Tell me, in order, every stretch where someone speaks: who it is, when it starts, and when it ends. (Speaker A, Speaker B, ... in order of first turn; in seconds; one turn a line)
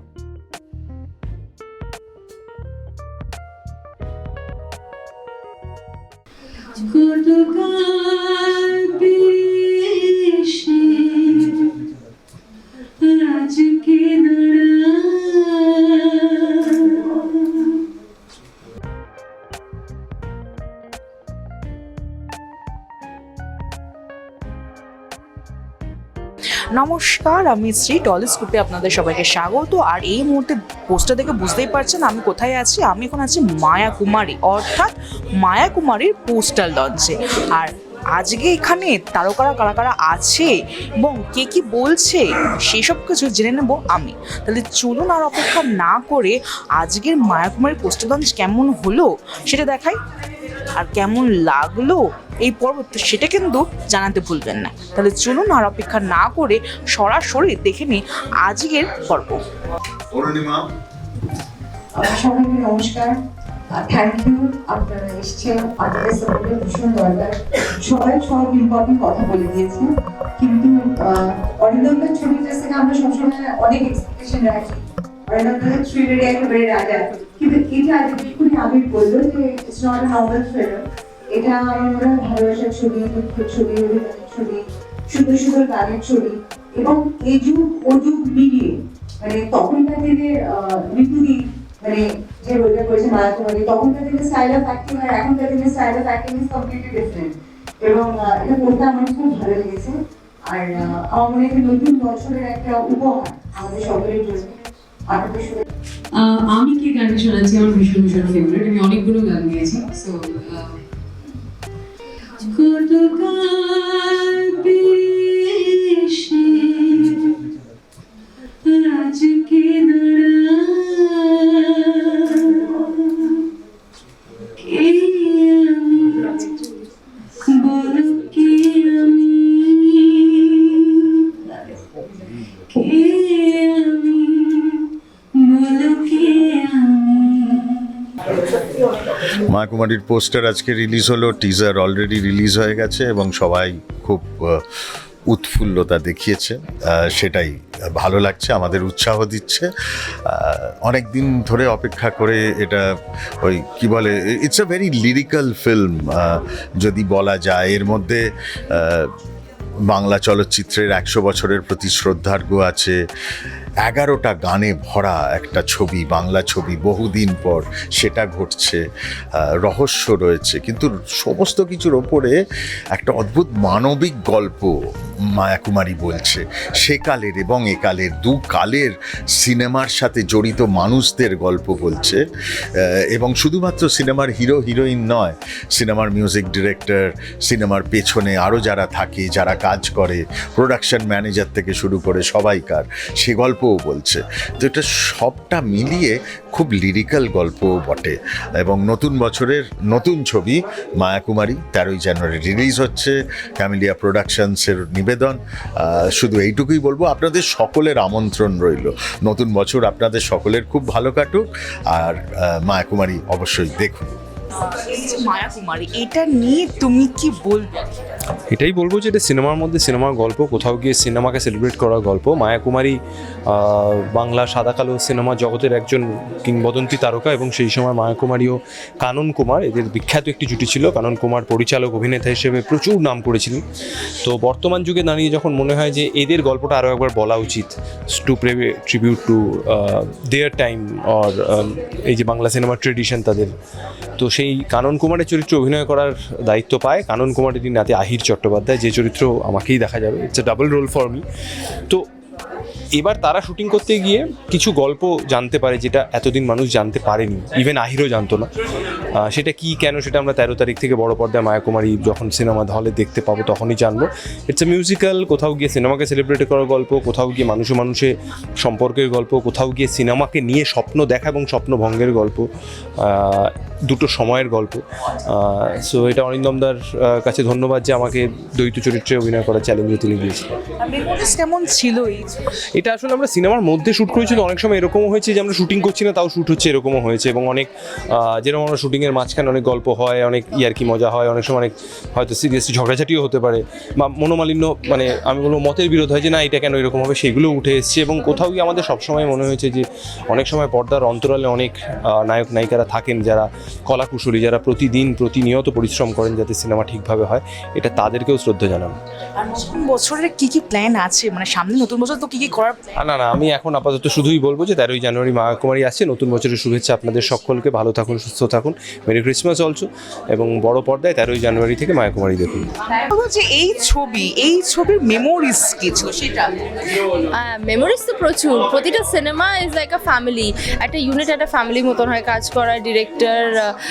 Speaker A: 7.5-10.4
Speaker A: 13.5-17.1
Speaker B: 26.7-50.0
Speaker B: 50.8-59.5
Speaker C: 60.1-60.6
Speaker D: 62.0-63.2
Speaker D: 63.7-104.5
Speaker D: 105.1-105.6
Speaker A: 106.2-109.6
Speaker B: 109.7-110.1
Speaker A: 112.5-114.2
Speaker A: 119.3-120.0
Speaker A: 120.5-121.7
Speaker A: 125.1-126.2
Speaker A: 127.7-129.3
Speaker A: 135.6-136.8
Speaker C: 139.3-144.6
Speaker C: 145.3-149.7
Speaker C: 150.2-152.9
Speaker C: 153.4-159.1
Speaker C: 159.9-163.0
Speaker C: 163.8-168.8
Speaker C: 169.4-172.3
Speaker C: 172.9-174.7
Speaker C: 175.3-182.2
Speaker C: 182.8-214.1
Speaker B: 214.6-217.9
Speaker E: 218.5-233.6
Speaker E: 234.2-243.5
Speaker E: 244.2-251.2
Speaker E: 252.9-258.5
Speaker E: 259.2-272.4
Speaker E: 273.0-280.5
Speaker B: 280.8-282.4
Speaker E: 282.8-308.9
Speaker B: 309.4-312.9
Speaker E: 313.0-322.7
Speaker B: 323.1-326.6
Speaker F: 327.3-333.7